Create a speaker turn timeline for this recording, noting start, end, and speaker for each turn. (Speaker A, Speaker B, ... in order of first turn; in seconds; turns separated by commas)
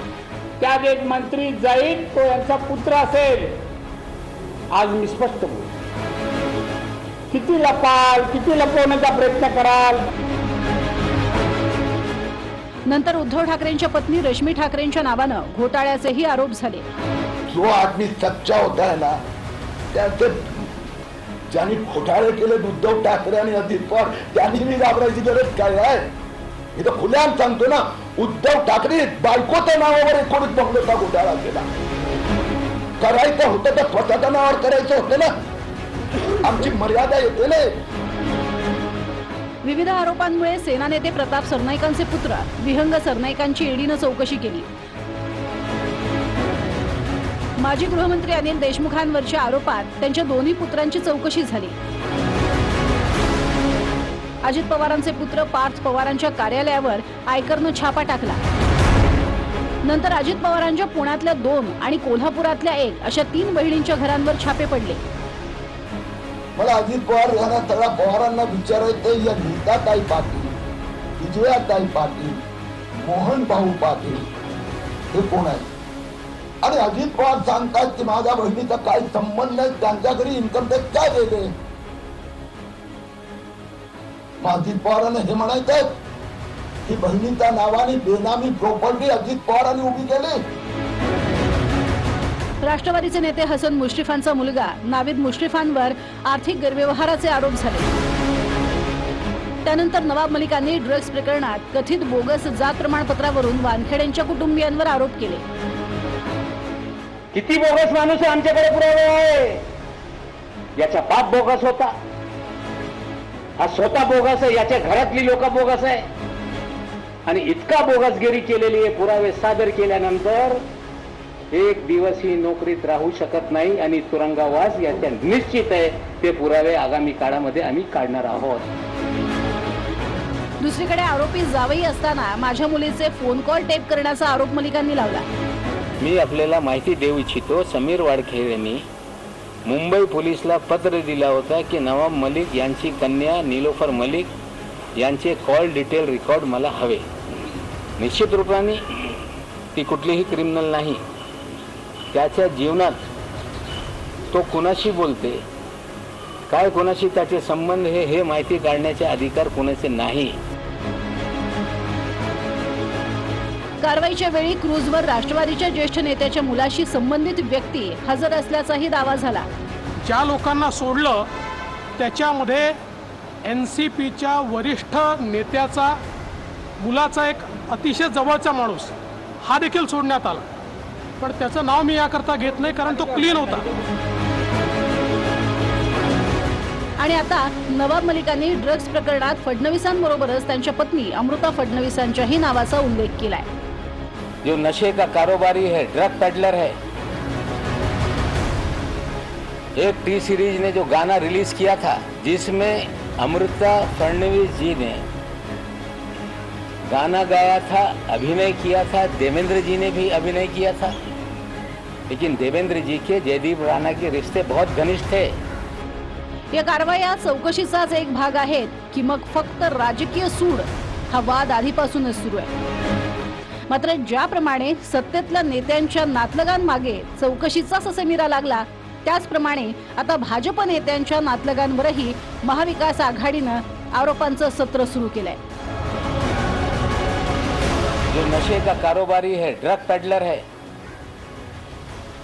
Speaker A: 0.6-3.7, Speaker A: 4.7-5.7, Speaker A: 7.3-10.0, Speaker B: 12.9-16.8, Speaker C: 17.5-19.2, Speaker C: 19.9-20.7, Speaker C: 21.5-26.1, Speaker C: 26.8-31.6, Speaker C: 33.0-35.3, Speaker C: 36.4-37.7, Speaker B: 39.6-44.7, Speaker B: 47.6-51.8, Speaker B: 54.4-58.4, Speaker B: 59.8-65.0, Speaker C: 66.6-70.5, Speaker C: 71.2-72.4, Speaker C: 73.0-74.2, Speaker C: 75.1-75.7, Speaker C: 76.6-81.5, Speaker C: 84.4-85.9, Speaker C: 86.8-90.4, Speaker B: 92.6-97.9, Speaker B: 99.6-105.4, Speaker D: 107.3-109.6, Speaker D: 110.8-111.9, Speaker D: 113.6-116.0, Speaker D: 117.3-120.6, Speaker D: 121.5-128.7, Speaker B: 130.6-135.2, Speaker D: 136.0-138.8, Speaker D: 139.7-144.3, Speaker D: 145.0-147.0, Speaker D: 148.0-148.8, Speaker D: 149.7-151.0, Speaker D: 152.1-153.1, Speaker D: 154.3-155.4, Speaker D: 156.5-160.3, Speaker B: 163.8-169.5, Speaker E: 170.0-171.3, Speaker E: 172.0-172.8, Speaker E: 173.4-176.0, Speaker E: 176.8-180.4, Speaker E: 181.2-183.6, Speaker B: 187.0-193.5, Speaker D: 194.4-196.8, Speaker D: 199.7-205.0, Speaker D: 206.8-210.9, Speaker D: 212.1-215.3, Speaker B: 216.5-222.5, Speaker B: 223.7-235.4, Speaker D: 238.1-240.4